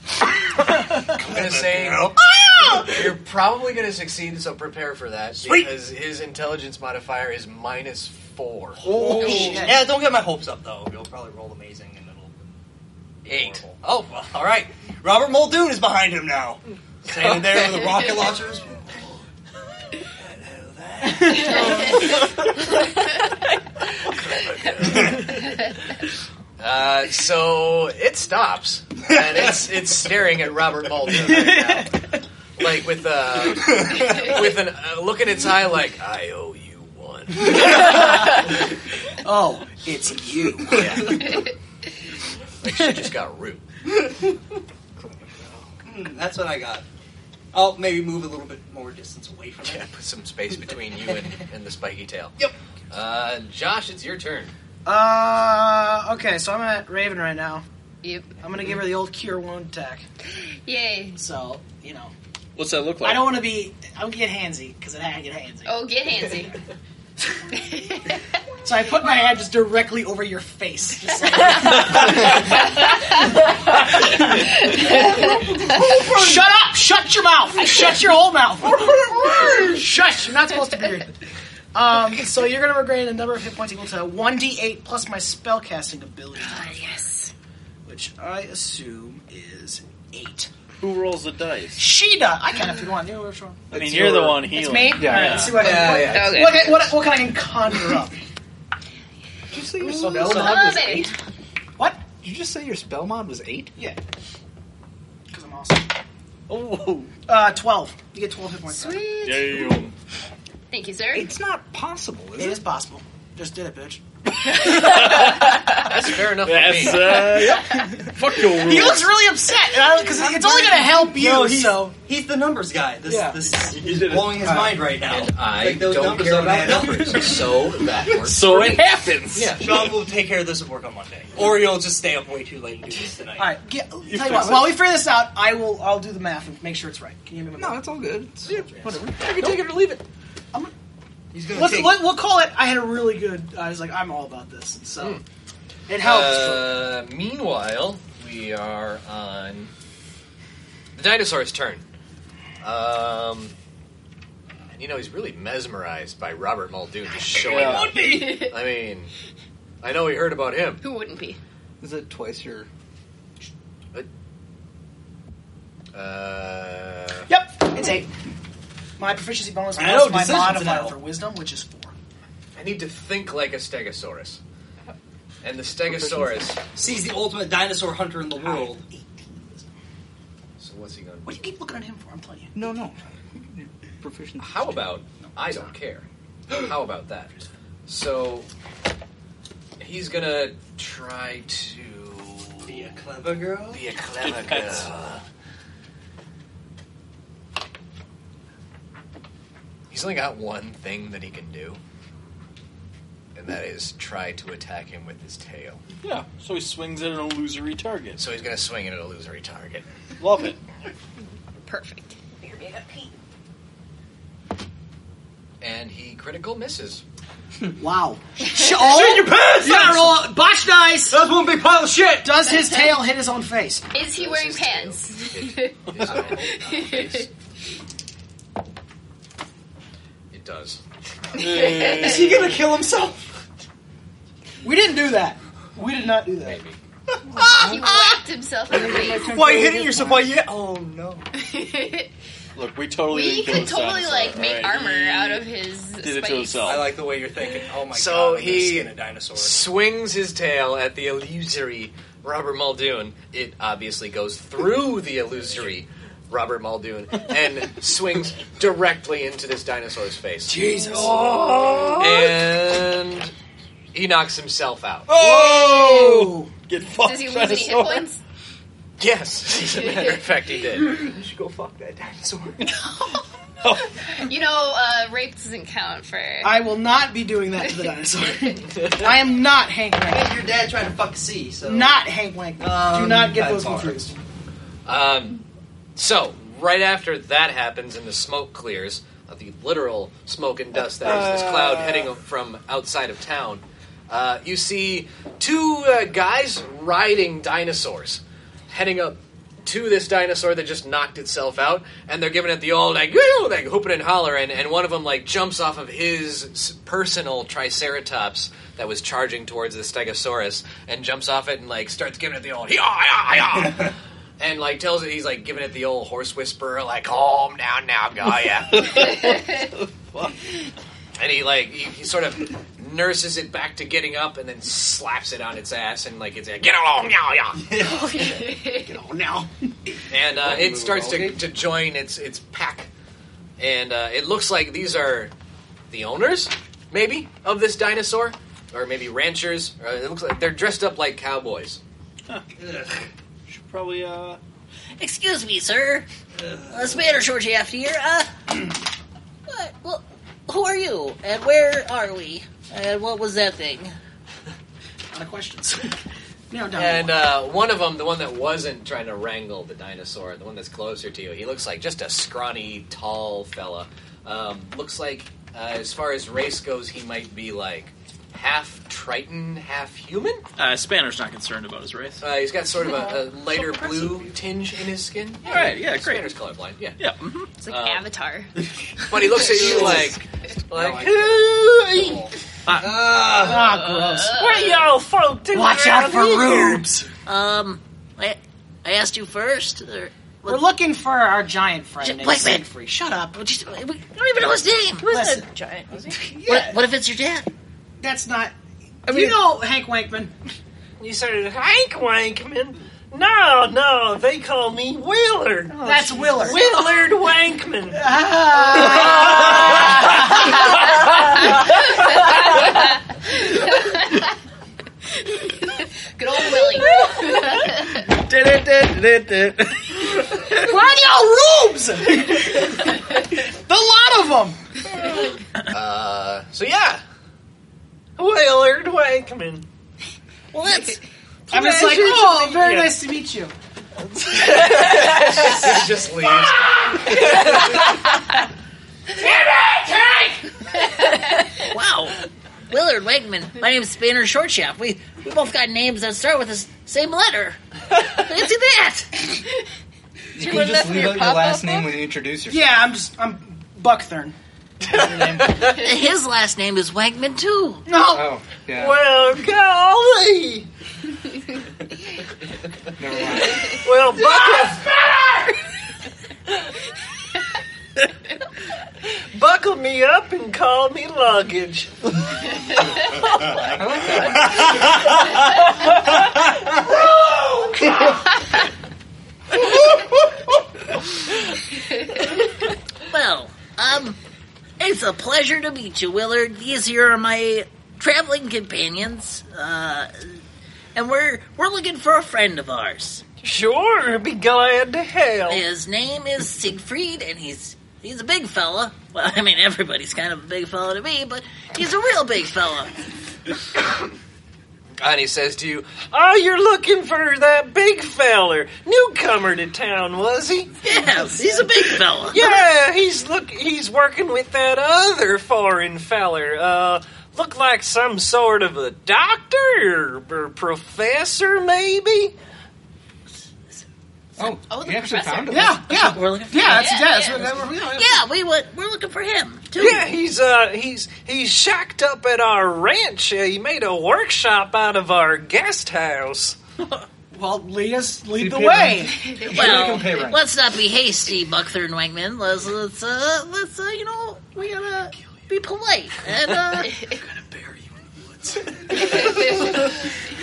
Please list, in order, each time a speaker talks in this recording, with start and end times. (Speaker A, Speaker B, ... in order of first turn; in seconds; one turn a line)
Speaker A: 1.1-3.0
Speaker B: 1.2-8.8
Speaker A: 5.4-5.7
Speaker A: 8.8-12.4
Speaker C: 9.2-9.8
Speaker D: 9.2-9.5
Speaker B: 13.2-13.8
Speaker A: 13.2-19.2
Speaker A: 20.1-22.2
Speaker B: 24.1-25.3
Speaker A: 24.9-25.2
Speaker B: 26.6-32.0
Speaker C: 31.3-31.9
Speaker B: 32.6-38.0
Speaker A: 33.7-34.3
Speaker C: 37.8-38.5
Speaker C: 39.2-41.1
Speaker B: 40.7-41.4
Speaker B: 42.6-43.6
Speaker E: 45.0-45.6
Speaker A: 45.8-46.8
Speaker A: 47.5-49.9
Speaker B: 49.6-52.4
Speaker B: 52.9-54.5
Speaker C: 54.9-57.6
Speaker D: 58.0-58.3
Speaker C: 58.4-60.0
Speaker D: 60.6-61.2
Speaker C: 61.1-62.1
Speaker F: 62.5-63.4
Speaker C: 63.0-65.8
Speaker D: 65.6-66.5
Speaker D: 67.5-68.2
Speaker C: 68.6-72.5
Speaker D: 74.3-76.1
Speaker C: 74.7-81.1
Speaker C: 81.7-86.8
Speaker D: 86.4-87.3
Speaker C: 87.8-90.5
Speaker F: 90.8-91.8
Speaker C: 91.8-93.6
Speaker E: 93.7-95.5
Speaker F: 93.7-95.7
Speaker C: 94.5-98.2
Speaker B: 95.5-96.5
Speaker D: 95.7-96.9
Speaker E: 99.5-101.1
Speaker D: 99.9-101.1
Speaker A: 99.9-100.9
Speaker E: 102.2-103.7
Speaker C: 105.3-105.9
Speaker F: 106.5-107.1
Speaker C: 107.3-109.1
Speaker D: 108.7-109.8
Speaker F: 109.1-109.9
Speaker D: 110.7-111.3
Speaker E: 111.1-112.6
Speaker C: 112.4-114.0
Speaker F: 114.4-119.3
Speaker B: 115.7-117.5
Speaker C: 118.5-121.9
Speaker E: 120.0-121.0
Speaker A: 120.7-127.6
Speaker E: 123.1-123.4
Speaker F: 123.2-124.6
Speaker E: 124.4-124.8
Speaker B: 125.1-130.0
Speaker F: 128.2-129.6
Speaker A: 129.6-133.6
Speaker C: 133.4-137.9
Speaker F: 134.1-134.8
Speaker E: 137.6-139.6
Speaker B: 139.2-140.0
Speaker A: 141.3-142.1
Speaker C: 141.5-145.2
Speaker C: 145.9-146.8
Speaker B: 146.0-149.7
Speaker B: 150.9-151.8
Speaker B: 152.6-153.5
Speaker B: 154.8-159.1
Speaker A: 157.3-158.5
Speaker F: 157.4-158.0
Speaker D: 157.9-158.6
Speaker B: 159.8-160.8
Speaker D: 160.8-161.4
Speaker E: 161.8-162.7
Speaker B: 165.9-167.3
Speaker C: 167.3-168.1
Speaker C: 169.0-171.9
Speaker A: 169.7-171.0
Speaker B: 172.5-174.4
Speaker B: 175.4-176.6
Speaker E: 175.8-176.5
Speaker A: 176.7-178.8
Speaker C: 178.4-179.7
Speaker B: 180.6-181.5
Speaker C: 181.2-182.5
Speaker E: 182.5-182.9
Speaker E: 183.5-185.0
Speaker B: 184.4-188.5
Speaker B: 189.8-193.0
Speaker A: 192.6-193.9
Speaker B: 193.7-195.2
Speaker F: 194.4-194.8
Speaker B: 199.9-201.8
Speaker B: 203.3-205.8
Speaker F: 206.0-208.2
Speaker B: 208.2-209.8
Speaker F: 210.2-210.6
Speaker D: 211.6-212.5
Speaker B: 215.6-217.0
Speaker C: 217.7-221.2
Speaker A: 218.8-220.3
Speaker A: 221.1-222.6
Speaker C: 222.2-223.9
Speaker D: 223.9-227.3
Speaker B: 223.9-227.3
Speaker B: 230.3-230.8
Speaker F: 231.4-232.4
Speaker D: 231.4-232.3
Speaker A: 231.4-233.4
Speaker C: 234.6-236.6
Speaker B: 236.4-236.8
Speaker A: 237.3-238.2
Speaker E: 237.3-237.9
Speaker D: 237.4-239.4
Speaker E: 238.7-240.4
Speaker A: 239.2-241.3
Speaker D: 241.4-242.1
Speaker F: 242.6-246.9
Speaker D: 243.0-246.8
Speaker A: 246.6-249.7
Speaker B: 247.9-260.6
Speaker A: 260.5-262.1
Speaker F: 261.0-262.0
Speaker B: 262.0-263.3
Speaker B: 263.9-265.1
Speaker F: 265.1-268.1
Speaker C: 265.1-266.5
Speaker D: 267.0-268.2
Speaker B: 269.0-271.1
Speaker D: 269.8-270.1
Speaker A: 271.1-272.6
Speaker D: 274.1-276.5
Speaker C: 276.4-280.4
Speaker A: 280.1-282.1
Speaker C: 281.6-284.1
Speaker A: 282.6-284.0
Speaker B: 284.9-285.4
Speaker B: 285.9-319.0
Speaker A: 291.2-292.0
Speaker D: 319.0-319.4
Speaker B: 321.2-327.6
Speaker A: 327.7-328.2
Speaker D: 327.8-328.9
Speaker C: 328.7-329.5
Speaker B: 330.1-332.9
Speaker A: 330.3-331.4
Speaker B: 333.6-335.3
Speaker B: 335.9-341.8
Speaker A: 342.6-342.9
Speaker F: 343.5-344.4
Speaker G: 345.0-346.1
Speaker A: 346.4-347.1
Speaker G: 346.7-348.7
Speaker G: 349.5-353.9
Speaker C: 355.1-355.9
Speaker C: 356.5-357.1
Speaker B: 356.7-370.4
Speaker F: 370.6-372.2
Speaker B: 372.2-377.0
Speaker F: 375.4-376.3
Speaker F: 377.0-377.5
Speaker D: 377.6-378.5
Speaker B: 377.7-378.0
Speaker B: 379.1-381.4
Speaker A: 379.5-380.1
Speaker A: 380.7-383.7
Speaker F: 382.6-383.2
Speaker C: 383.4-384.4
Speaker D: 383.8-384.9
Speaker H: 384.4-386.9
Speaker C: 385.5-387.1
Speaker G: 387.2-390.7
Speaker C: 390.4-393.4
Speaker G: 392.0-392.6
Speaker G: 393.3-395.1
Speaker I: 395.0-396.4
Speaker C: 395.0-395.4
Speaker C: 396.0-396.8
Speaker G: 396.4-397.5
Speaker C: 398.0-398.5
Speaker C: 399.0-400.3
Speaker E: 399.1-399.4
Speaker H: 401.0-408.0
Speaker I: 405.7-406.8
Speaker C: 405.8-406.6
Speaker C: 407.9-410.8
Speaker H: 408.7-410.1
Speaker D: 411.5-414.2
Speaker D: 415.6-418.0
Speaker F: 416.7-420.6
Speaker C: 420.5-424.6
Speaker B: 425.7-427.0
Speaker H: 428.2-429.6
Speaker G: 430.5-431.0
Speaker C: 431.5-433.5
Speaker H: 431.5-433.0
Speaker G: 431.7-432.1
Speaker F: 434.4-435.0
Speaker B: 434.6-437.6
Speaker G: 441.0-442.2
Speaker G: 442.7-449.4
Speaker E: 450.3-452.7
Speaker I: 450.4-452.0
Speaker C: 452.5-454.4
Speaker E: 454.9-455.6
Speaker G: 455.6-457.9
Speaker C: 457.9-458.3
Speaker E: 458.1-459.0
Speaker H: 458.7-460.7
Speaker E: 463.0-463.9
Speaker H: 463.6-465.5
Speaker H: 469.3-472.0
Speaker E: 473.5-475.0
Speaker G: 483.1-484.2
Speaker G: 484.8-490.4
Speaker G: 490.9-493.2
Speaker H: 493.4-495.6
Speaker G: 495.5-502.9
Speaker B: 505.0-505.9
Speaker H: 506.1-511.0
Speaker G: 510.8-512.5
Speaker H: 512.3-522.3
Speaker E: 524.4-526.0
Speaker D: 524.4-525.7
Speaker C: 525.5-528.2
Speaker G: 525.9-530.1
Speaker D: 526.7-527.5
Speaker H: 529.7-536.6
Speaker C: 537.3-539.3
Speaker E: 538.3-540.4
Speaker D: 539.3-540.0
Speaker G: 539.5-547.0
Speaker D: 546.8-547.2
Speaker D: 549.1-549.6